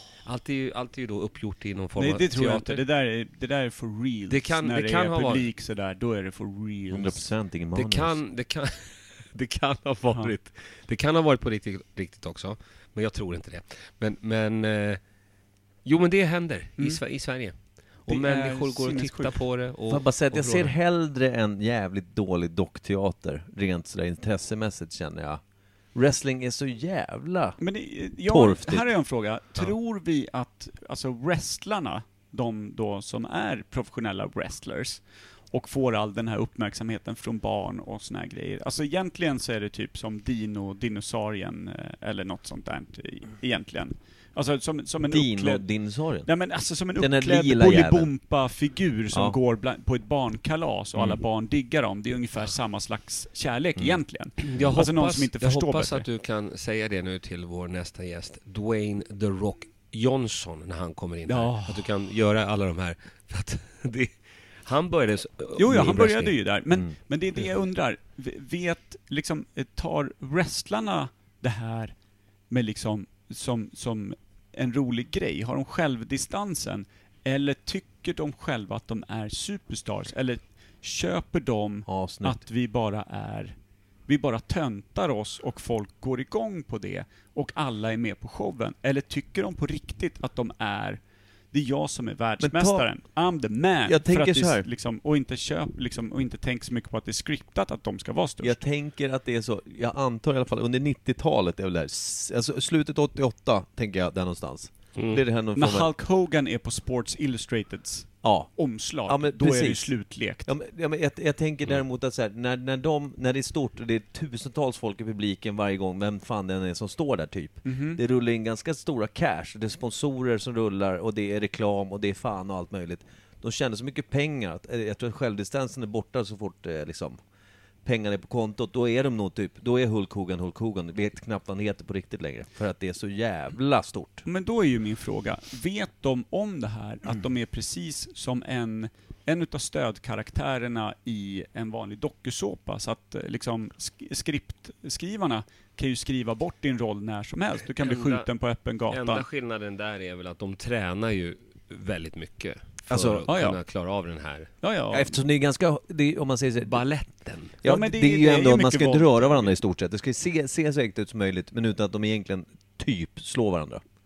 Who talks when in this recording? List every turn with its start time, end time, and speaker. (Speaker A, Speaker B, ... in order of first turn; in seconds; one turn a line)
Speaker A: 0.2-2.8
Speaker B: 2.0-7.3
Speaker A: 4.3-5.5
Speaker C: 6.9-8.2
Speaker A: 7.8-15.0
Speaker A: 15.8-17.6
Speaker A: 18.1-20.8
Speaker B: 18.1-19.4
Speaker C: 19.9-25.4
Speaker C: 25.9-27.6
Speaker B: 27.6-35.0
Speaker C: 28.3-28.9
Speaker B: 35.5-45.6
Speaker C: 45.0-46.3
Speaker B: 46.3-56.0
Speaker C: 47.0-48.1
Speaker A: 54.5-66.4
Speaker B: 61.3-61.9
Speaker B: 65.6-71.9
Speaker B: 72.5-83.5
Speaker C: 81.9-82.4
Speaker B: 84.1-91.0
Speaker B: 91.5-98.6
Speaker C: 92.4-92.9
Speaker C: 93.9-94.7
Speaker C: 98.4-105.9
Speaker A: 105.0-105.2
Speaker B: 105.5-110.5
Speaker C: 108.2-108.5
Speaker C: 109.1-127.2
Speaker B: 117.7-118.0
Speaker C: 127.8-134.2
Speaker B: 134.3-149.2
Speaker A: 147.8-148.3
Speaker A: 148.9-154.5
Speaker C: 152.9-153.3
Speaker B: 153.3-153.6
Speaker B: 154.6-155.2
Speaker C: 154.9-156.8
Speaker A: 156.6-157.6
Speaker C: 157.6-163.8
Speaker B: 157.6-159.6